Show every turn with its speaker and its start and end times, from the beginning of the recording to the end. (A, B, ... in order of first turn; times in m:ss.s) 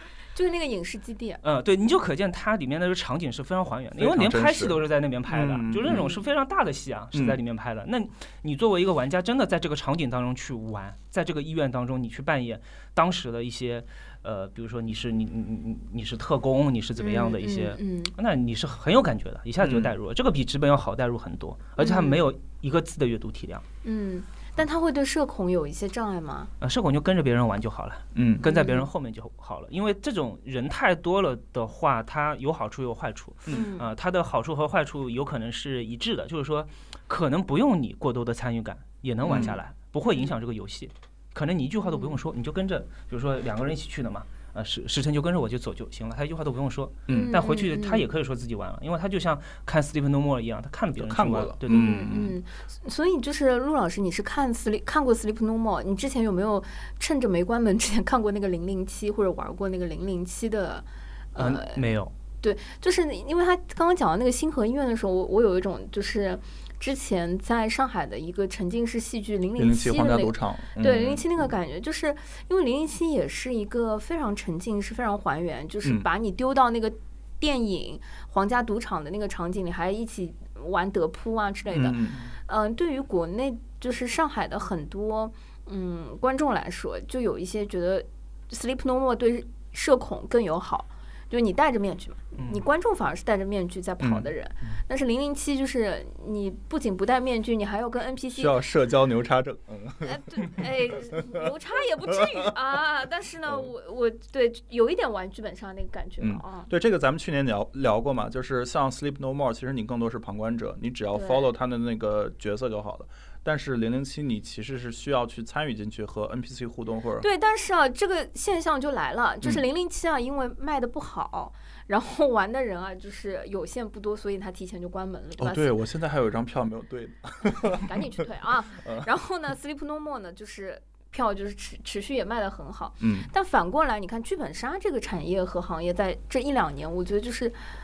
0:00.3-0:01.4 A
0:01.4-0:23.6 B
0:04.0-0:06.1 C
0:05.9-0:06.2 A
0:17.0-0:18.1 A
0:19.6-0:19.9 C
0:21.8-0:22.2 A
0:23.8-0:26.5 A
0:26.6-0:52.1 B
0:28.1-0:28.4 C
0:28.4-0:28.9 A
0:33.5-0:33.9 A
0:39.2-0:39.6 C
0:39.2-0:39.6 A
0:41.8-0:42.2 A
0:47.1-0:47.4 C
0:47.1-0:48.1 A
0:51.0-0:52.4 C
0:51.7-1:01.8 A
1:01.4-1:02.1 B
1:02.4-1:38.6 A
1:09.6-1:11.2 C
1:21.7-1:22.2 C
1:32.3-1:32.6 B
1:34.0-1:34.3 C
1:38.3-1:42.5 C
1:40.0-1:46.7 A
1:43.4-1:43.7 C
1:46.2-1:57.2 C
1:51.1-1:51.5 A
1:57.2-2:05.7 A
2:05.4-2:08.2 C
2:07.7-2:17.6 A
2:08.8-2:09.1 C
2:13.0-2:13.3 C